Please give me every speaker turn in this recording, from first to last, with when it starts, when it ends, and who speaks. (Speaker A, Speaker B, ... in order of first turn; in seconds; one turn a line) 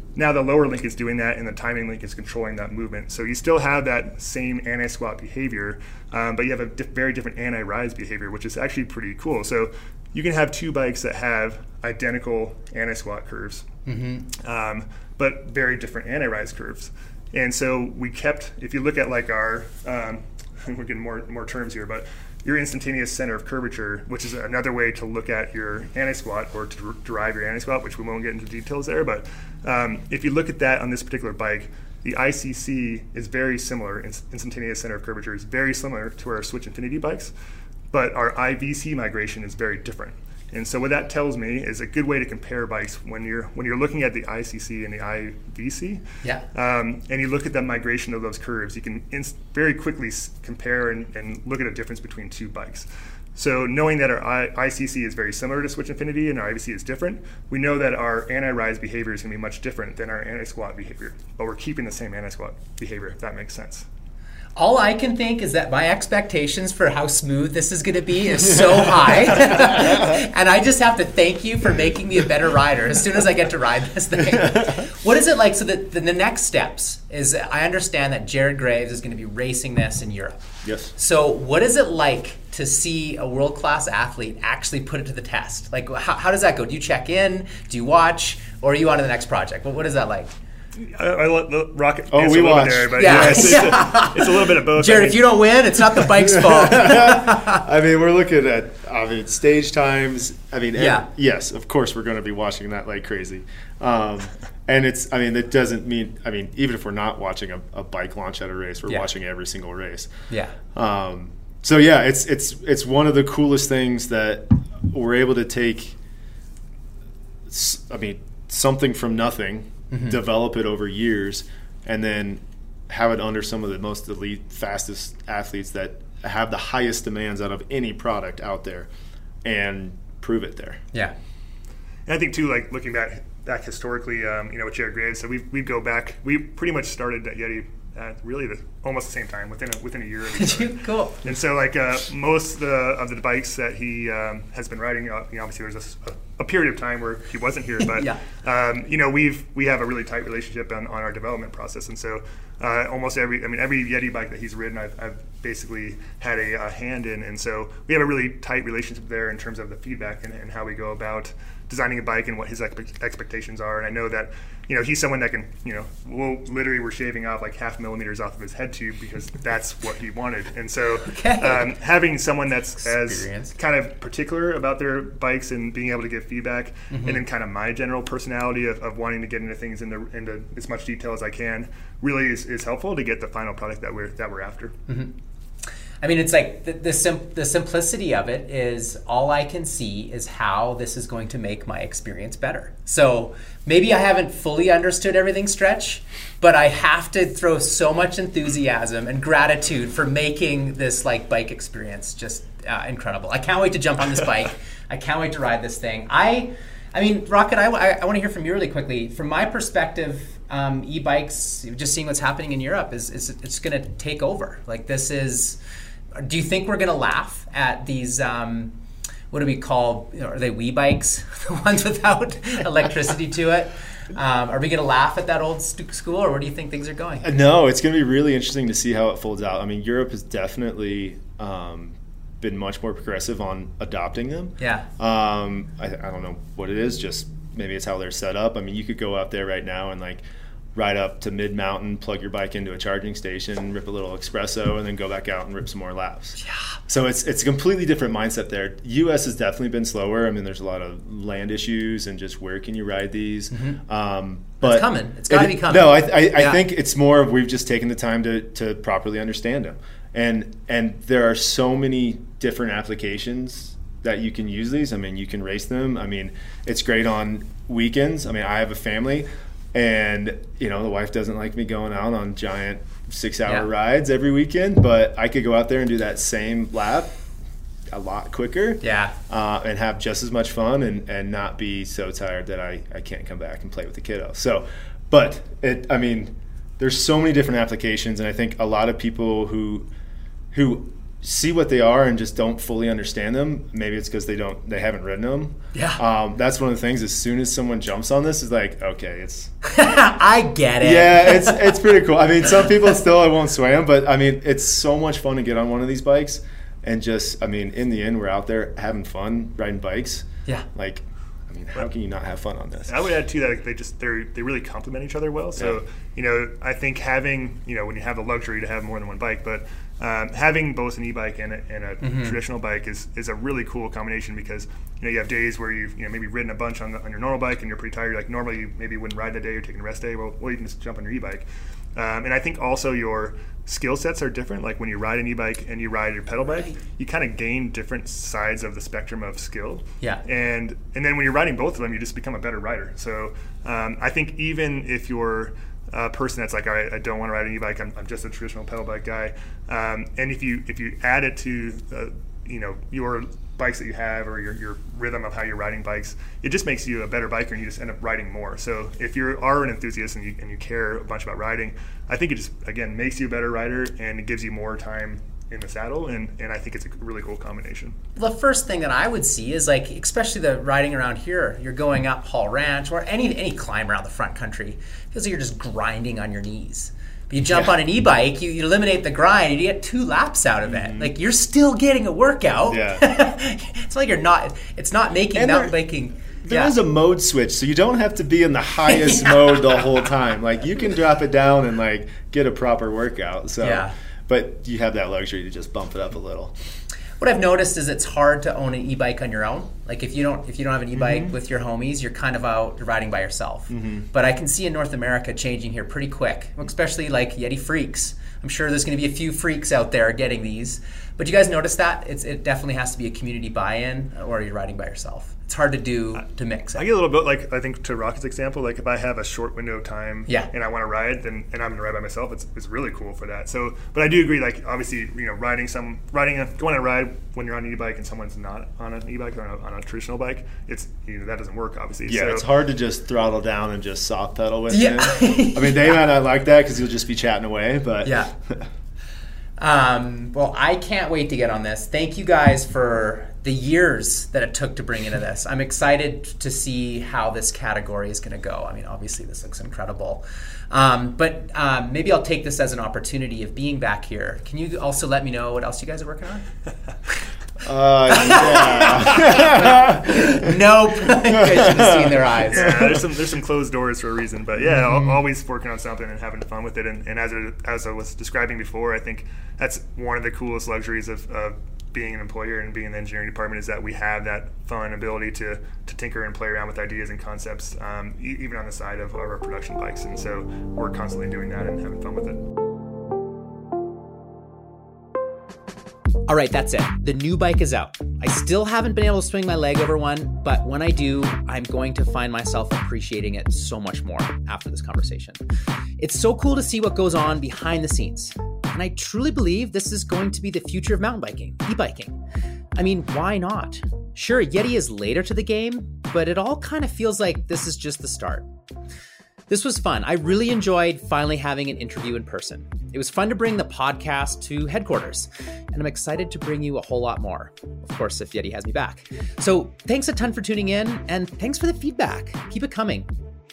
Speaker A: 0.1-13.6
Speaker B: 13.8-14.3
Speaker A: 14.3-37.3
Speaker A: 37.9-63.9
Speaker B: 64.5-80.4
Speaker C: 80.6-80.9
Speaker B: 80.9-90.3
Speaker A: 90.8-95.4
Speaker C: 92.1-93.6
Speaker B: 92.9-97.6
Speaker C: 96.2-110.1
Speaker B: 100.8-101.1
Speaker B: 110.3-110.6
Speaker C: 110.7-116.0
Speaker C: 117.5-128.9
Speaker B: 119.9-120.2
Speaker C: 129.4-130.8
Speaker A: 132.1-184.8
Speaker B: 140.4-141.2
Speaker B: 147.8-148.2
Speaker B: 171.0-171.7
Speaker B: 172.8-173.5
Speaker B: 176.9-177.2
Speaker B: 184.9-185.1
Speaker B: 186.0-215.6
Speaker B: 216.1-218.7
Speaker B: 219.3-227.3
Speaker C: 227.2-240.2
Speaker B: 234.6-234.9
Speaker C: 240.7-277.1
Speaker B: 246.4-246.8
Speaker B: 253.5-253.8
Speaker B: 254.6-256.6
Speaker C: 277.9-289.9
Speaker B: 278.8-279.1
Speaker C: 290.5-299.5
Speaker B: 295.7-296.0
Speaker B: 299.6-301.9
Speaker C: 300.8-313.1
Speaker A: 312.9-367.9
Speaker B: 322.0-322.4
Speaker B: 368.2-386.8
Speaker C: 377.5-377.8
Speaker C: 380.7-381.1
Speaker C: 382.7-383.0
Speaker C: 385.3-385.8
Speaker C: 386.4-396.5
Speaker B: 388.9-389.9
Speaker B: 393.6-393.9
Speaker B: 397.2-416.8
Speaker C: 403.7-404.1
Speaker A: 416.7-432.4
Speaker C: 432.1-438.7
Speaker B: 434.7-436.0
Speaker B: 438.0-438.3
Speaker B: 439.6-456.4
Speaker C: 457.6-460.5
Speaker B: 458.1-462.8
Speaker C: 461.1-463.0
Speaker A: 462.5-482.4
Speaker B: 486.3-495.4
Speaker B: 496.0-502.2
Speaker B: 502.7-508.4
Speaker B: 509.5-523.1